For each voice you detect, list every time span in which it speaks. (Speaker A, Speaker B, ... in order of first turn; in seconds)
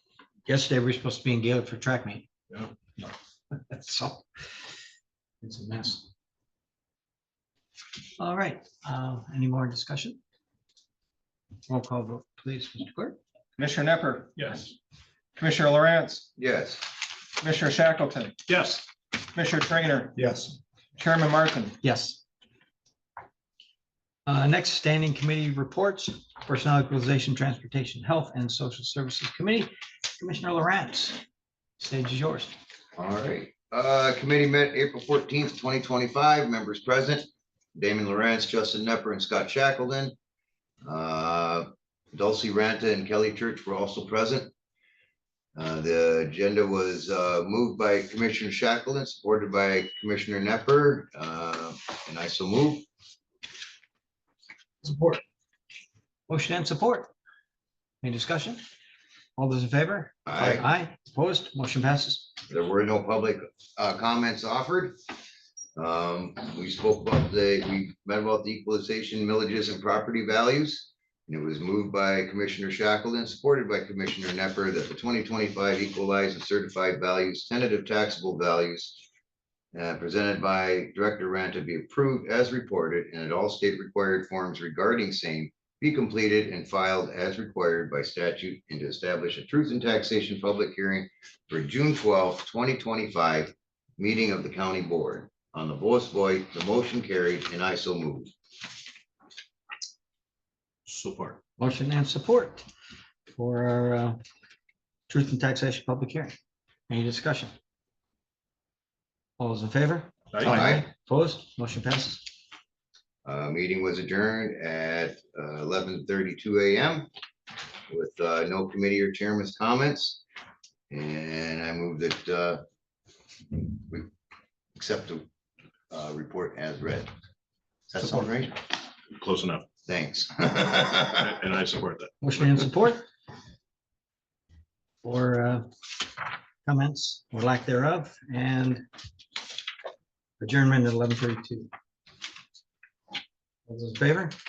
Speaker A: 0.5-2.3, 3.0-4.2, 5.4-6.1, 8.2-10.2, 11.7-13.2, 21.8-22.2, 24.3-31.2, 31.8-32.5, 56.3-57.1, 58.0-58.6, 59.4-62.3, 101.6-102.7, 103.3-104.2, 105.1-106.3, 106.9-107.5, 109.4-112.2, 132.2-133.1, 135.0-135.7, 136.6-138.8, 140.4-141.7, 143.7-144.4
Speaker B: 13.6-14.4, 15.4-16.3, 17.4-18.4, 19.3-20.2, 21.0-21.8
Speaker C: 14.4-14.7, 18.5-18.9, 20.2-20.6, 100.9-101.4, 129.1-129.7, 131.1-132.1
Speaker D: 16.4-16.9, 33.0-40.1, 40.8-44.5, 45.5-52.9, 60.3-60.6, 62.5-65.0, 65.8-79.0, 79.7-98.3, 110.4-110.8, 113.2-117.1, 117.9-120.2, 120.9-122.6, 123.5-124.1, 124.8-125.3, 125.9-127.1, 127.9-128.6, 129.9-131.2